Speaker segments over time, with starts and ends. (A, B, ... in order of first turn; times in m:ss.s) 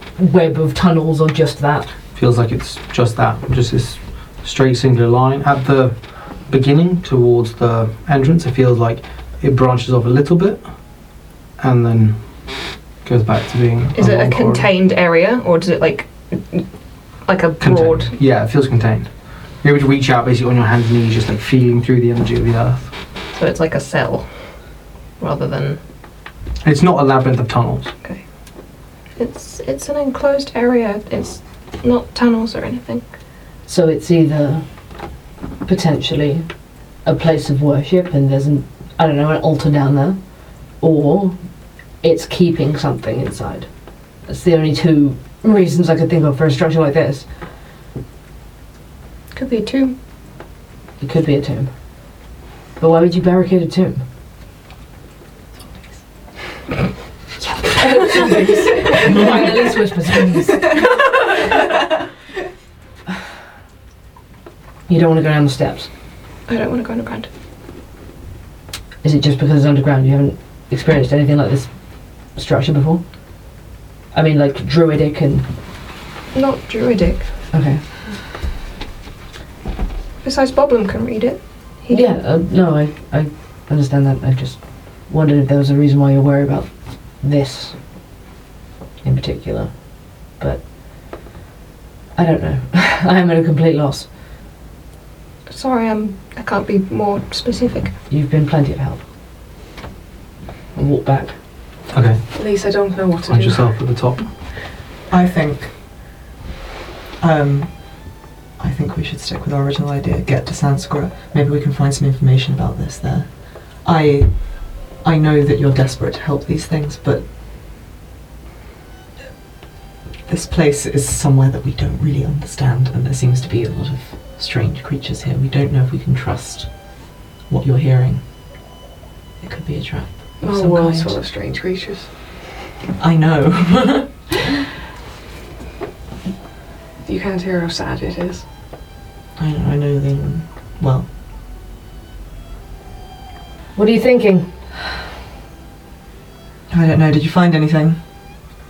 0:00.2-0:01.9 A
0:02.1-0:14.7 B
0:13.9-0:16.7 C
0:17.2-0:18.2 C
0:17.6-0:22.9 B
0:23.3-0:25.8 C
0:26.6-0:27.9 B
0:29.2-0:33.0 D
0:33.6-0:34.9 A
0:35.6-0:47.3 A
0:49.3-0:49.9 D
0:51.0-0:51.7 A
0:52.8-0:54.0 A
0:57.4-1:00.9 A
1:04.9-1:05.9 A
1:06.5-1:07.3 D
1:09.0-1:13.0 A
1:14.1-1:15.5 A
1:16.3-1:17.3 D
1:17.5-1:17.8 A
1:20.2-1:22.1 D
1:21.9-1:27.8 A
1:29.0-1:31.1 A
1:32.2-1:34.1 A
1:35.5-1:37.9 D
1:38.1-1:39.0 A
1:40.7-1:41.7 A
1:41.9-1:44.3 B
1:42.3-1:44.0 E
1:45.1-1:45.8 F
1:47.2-1:57.3 F
2:00.2-2:08.2 F
2:09.4-2:11.2 F
2:10.4-2:12.4 E
2:13.0-2:14.4 F
2:17.0-2:18.5 E
2:19.4-2:21.1 F
2:23.7-2:24.6 A
2:26.7-2:28.0 F